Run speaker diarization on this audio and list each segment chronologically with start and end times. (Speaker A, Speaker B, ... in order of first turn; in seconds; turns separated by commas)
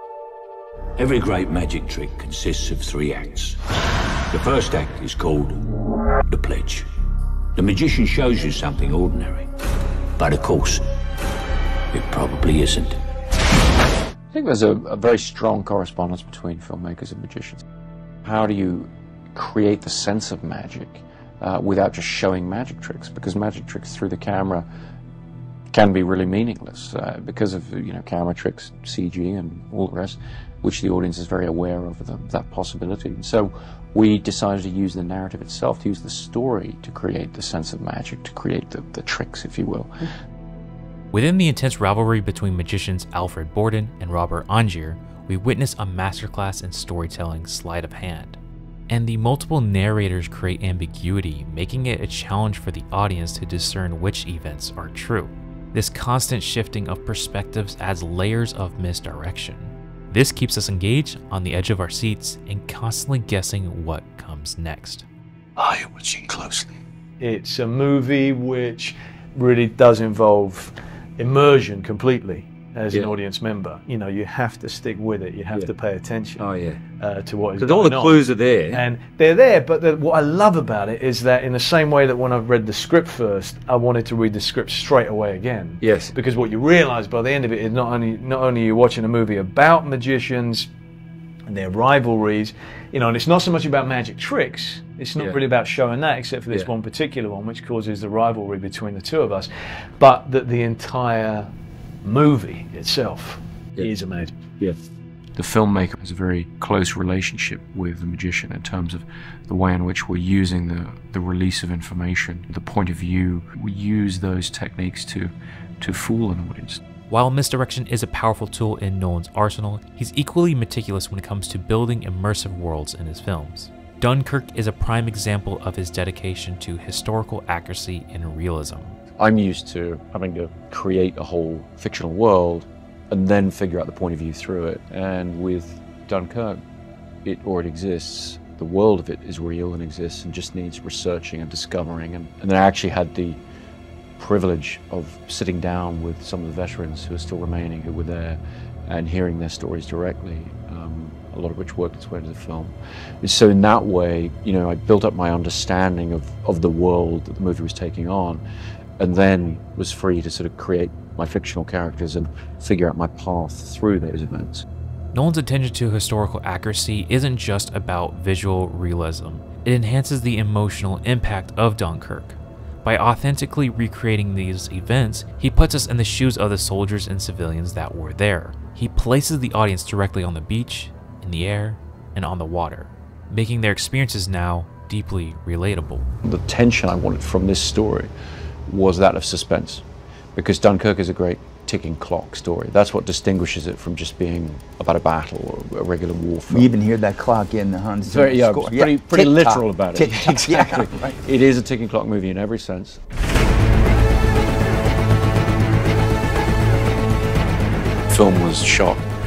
Speaker A: 1.0-3.6, Speaker A: 4.3-5.7, Speaker A: 6.2-6.9, Speaker A: 7.6-9.5, Speaker A: 10.2-10.9, Speaker A: 11.9-13.0, Speaker B: 14.3-17.6, Speaker B: 18.2-24.7, Speaker B: 25.7-40.0, Speaker C: 41.1-65.1, Speaker D: 67.2-76.5, Speaker A: 76.4-76.8, Speaker D: 77.0-90.7, Speaker A: 77.6-78.8, Speaker D: 91.5-101.5, Speaker D: 102.0-104.3, Speaker B: 105.4-116.8, Speaker C: 117.1-129.0, Speaker B: 129.2-136.6, Speaker B: 137.2-143.4, Speaker B: 144.2-158.4, Speaker B: 159.0-164.7, Speaker C: 165.1-186.1, Speaker B: 186.2-188.1, Speaker B: 188.7-189.8, Speaker B: 190.4-196.7, Speaker E: 196.5-201.2, Speaker B: 198.1-203.0, Speaker B: 208.1-209.1